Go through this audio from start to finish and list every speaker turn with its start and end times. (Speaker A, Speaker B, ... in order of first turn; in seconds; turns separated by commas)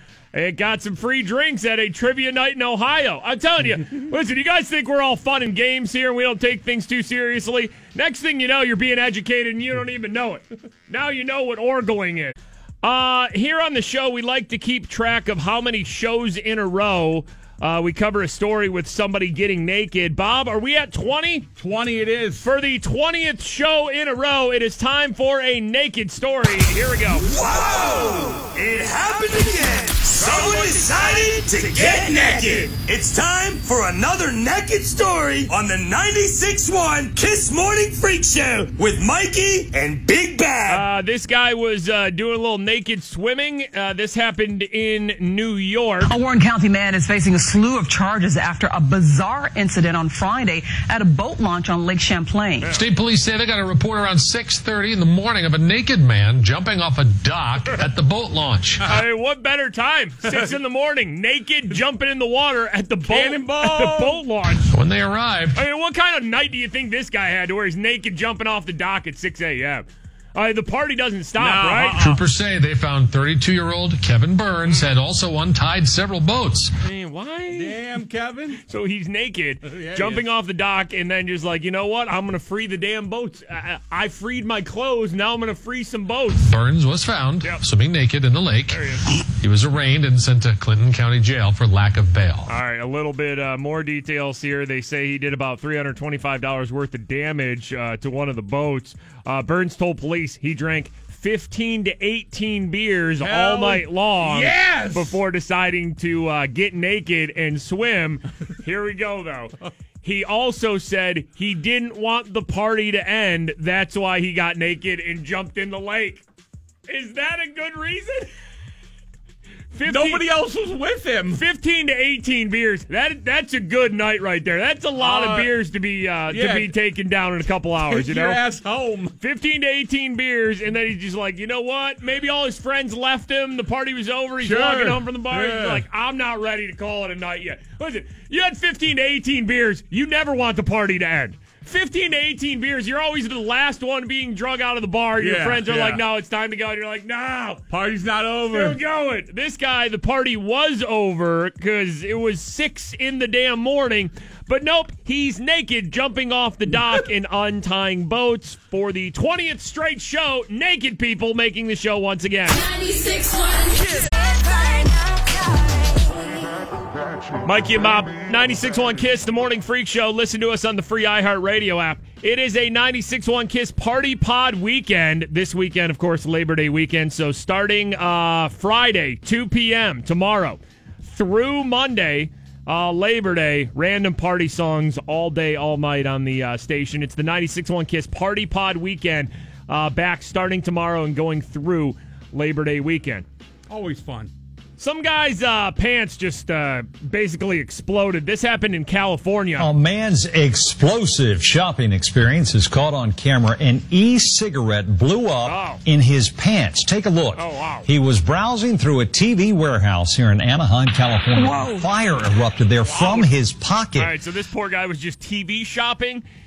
Speaker A: 0.3-21.5, Speaker B: 21.6-22.4, Speaker A: 22.4-27.3, Speaker C: 27.3-40.9, Speaker B: 30.3-32.7, Speaker A: 40.7-46.1, Speaker D: 46.0-52.7, Speaker E: 52.7-58.9, Speaker A: 58.9-64.7, Speaker B: 63.1-64.2, Speaker E: 64.7-65.6, Speaker A: 65.5-72.0, Speaker B: 71.4-72.2, Speaker E: 72.0-76.7, Speaker A: 76.8-77.8, Speaker B: 77.5-78.6, Speaker A: 78.7-86.5, Speaker B: 79.7-80.3, Speaker E: 86.5-88.8, Speaker A: 88.7-89.1, Speaker E: 89.4-92.5, Speaker A: 92.5-116.2, Speaker B: 103.2-105.2, Speaker A: 116.9-118.3, Speaker A: 119.7-120.3, Speaker B: 119.9-121.4, Speaker A: 121.3-128.4, Speaker B: 125.0-125.5, Speaker B: 126.3-126.7, Speaker B: 127.9-129.1, Speaker A: 129.2-147.6, Speaker B: 134.4-135.8, Speaker B: 145.2-146.0, Speaker B: 147.7-148.8, Speaker A: 148.5-162.7, Speaker A: 167.4-193.3, Speaker B: 193.7-194.3, Speaker A: 194.8-199.7, Speaker F: 199.6-214.1, Speaker A: 205.4-205.8, Speaker A: 207.4-207.9, Speaker B: 212.8-213.3, Speaker A: 214.0-216.2